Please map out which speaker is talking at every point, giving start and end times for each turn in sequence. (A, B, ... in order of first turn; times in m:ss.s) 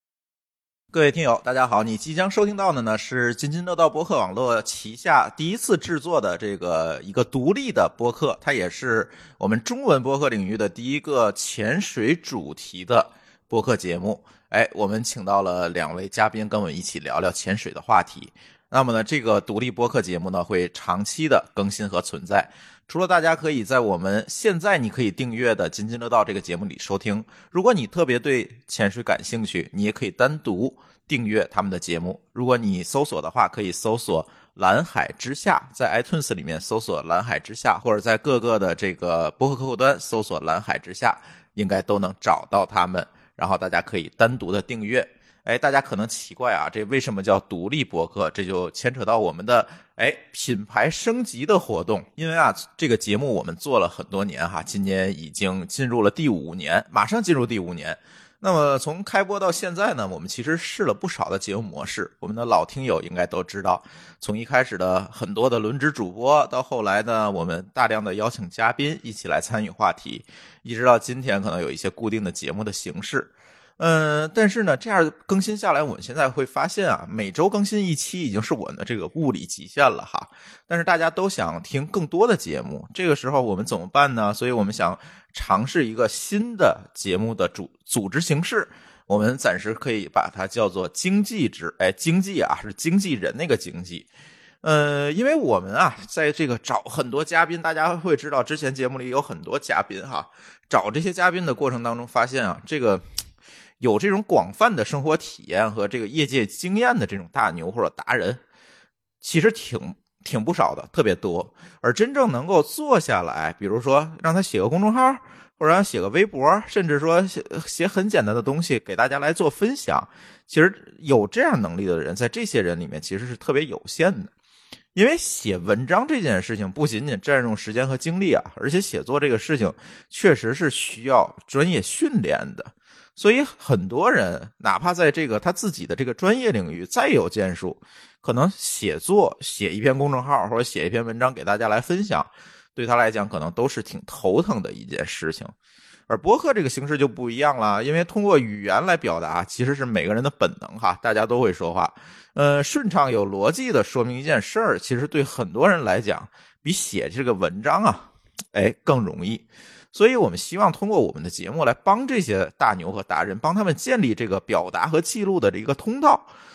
0:00.9-1:34.1 A
1:34.6-1:43.0 A
1:43.8-1:48.4 A
1:49.2-2:04.3 A
2:04.9-2:25.5 A
2:26.1-2:46.3 A